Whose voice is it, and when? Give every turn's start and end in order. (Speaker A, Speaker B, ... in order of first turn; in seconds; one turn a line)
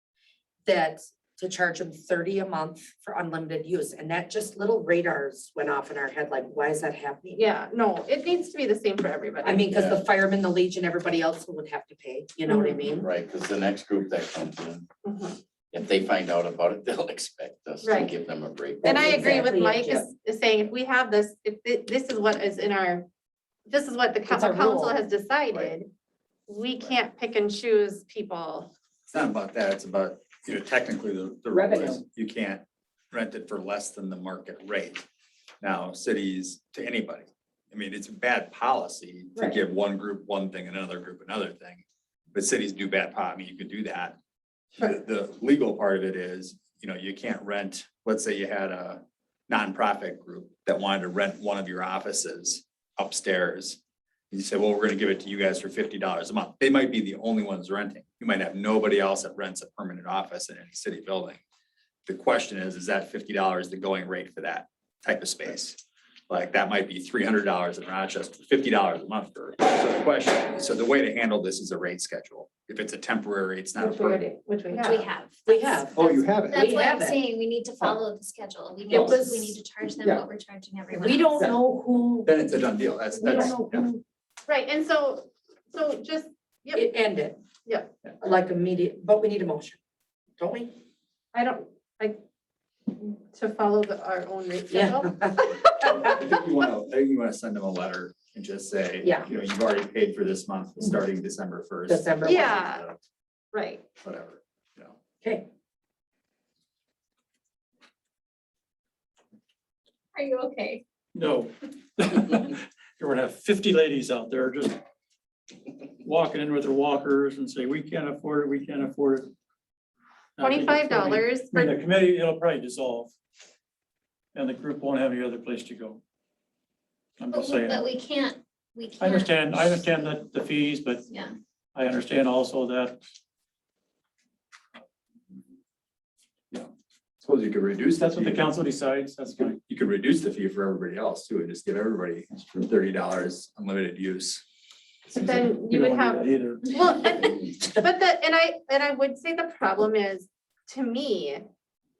Speaker A: 0.7-7.4
Speaker B: 7.3-9.7
Speaker A: 9.4-13.1
Speaker C: 9.7-10.0
Speaker B: 12.5-12.8
Speaker C: 13.0-14.9
Speaker B: 15.0-15.3
Speaker C: 15.7-19.5
Speaker B: 17.8-18.1
Speaker A: 18.8-20.1
Speaker B: 18.8-23.1
Speaker B: 23.7-25.9
Speaker A: 24.3-25.0
Speaker B: 26.5-28.7
Speaker D: 29.1-35.0
Speaker A: 31.5-32.0
Speaker D: 35.6-44.2
Speaker A: 39.4-39.6
Speaker D: 44.8-53.8
Speaker D: 54.3-61.4
Speaker D: 62.0-74.2
Speaker B: 74.7-75.0
Speaker E: 74.8-81.5
Speaker A: 75.5-77.2
Speaker D: 75.9-76.7
Speaker A: 78.9-79.5
Speaker D: 79.9-80.2
Speaker A: 80.9-82.3
Speaker D: 82.2-83.8
Speaker A: 83.2-83.7
Speaker B: 84.5-86.8
Speaker A: 86.7-87.4
Speaker A: 88.2-89.8
Speaker A: 90.4-90.7
Speaker B: 91.3-92.2
Speaker B: 92.9-96.2
Speaker A: 94.7-96.0
Speaker D: 96.1-103.0
Speaker A: 99.0-99.3
Speaker A: 101.9-102.5
Speaker B: 102.2-102.8
Speaker B: 103.5-103.8
Speaker D: 104.0-104.9
Speaker F: 111.1-114.8
Speaker F: 116.0-119.3
Speaker F: 120.4-123.1
Speaker B: 120.4-121.8
Speaker F: 124.3-126.0
Speaker F: 127.2-127.9
Speaker E: 127.3-130.1
Speaker F: 129.0-131.1
Speaker E: 131.1-131.3
Speaker F: 131.7-133.0
Speaker D: 136.5-138.5
Speaker F: 138.0-139.6
Speaker D: 139.3-144.4
Speaker B: 145.1-151.4
Speaker F: 145.2-146.9